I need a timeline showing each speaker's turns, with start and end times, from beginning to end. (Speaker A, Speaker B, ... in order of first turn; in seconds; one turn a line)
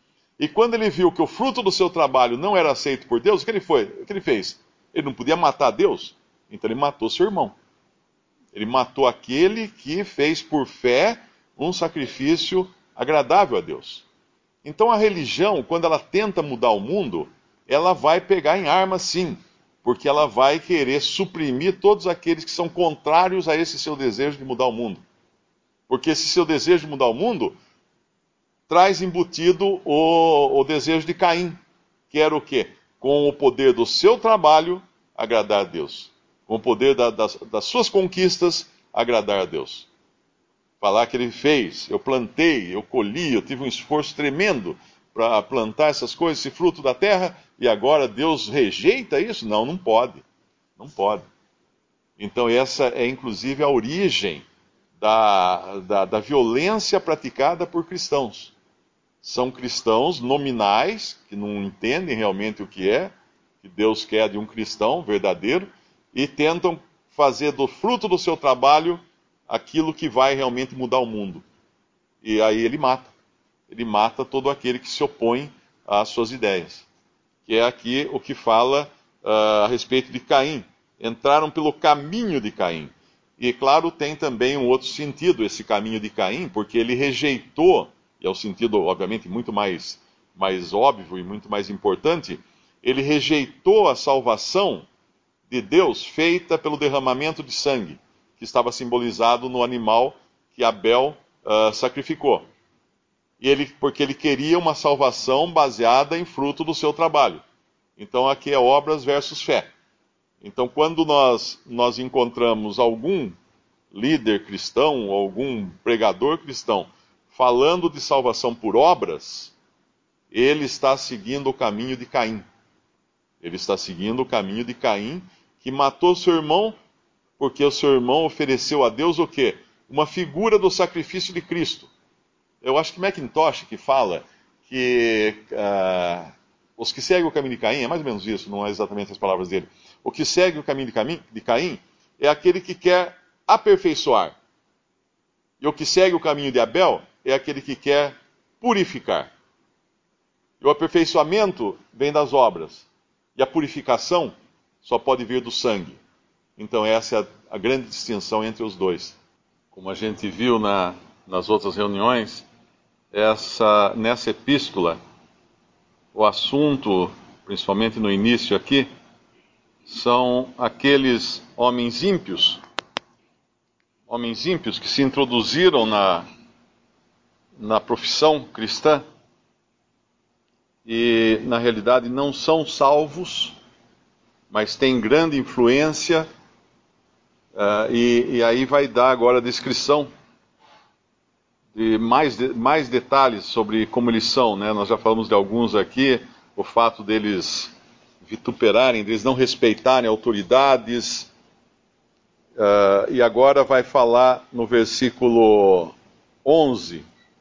Speaker A: 0.4-7.5
Speaker A: 8.5-14.1
Speaker A: 14.6-25.0
Speaker A: 25.9-27.6
Speaker A: 28.7-31.6
Speaker A: 32.1-39.9
Speaker A: 40.8-50.2
Speaker A: 50.8-51.2
Speaker A: 52.2-54.4
Speaker A: 55.0-58.5
Speaker A: 59.2-71.4
Speaker A: 72.2-73.1
Speaker A: 73.7-76.9
Speaker A: 77.5-94.9
Speaker A: 95.5-102.5
Speaker A: 103.4-107.4
Speaker A: 108.0-109.7
Speaker A: 110.4-113.3
Speaker A: 113.9-119.5
Speaker A: 120.3-122.5
Speaker A: 123.4-126.8
Speaker A: 127.4-131.9
Speaker A: 132.6-144.3
Speaker A: 145.6-149.3
Speaker A: 150.6-156.0
Speaker A: 156.6-159.2
Speaker A: 159.7-162.5
Speaker A: 163.1-165.0
Speaker A: 166.1-168.9
Speaker A: 169.8-172.6
Speaker A: 174.1-176.2
Speaker A: 177.6-179.0
Speaker A: 180.8-183.5
Speaker A: 184.5-186.3
Speaker A: 187.5-190.1
Speaker A: 191.7-197.7
Speaker A: 198.2-201.3
Speaker A: 202.6-207.1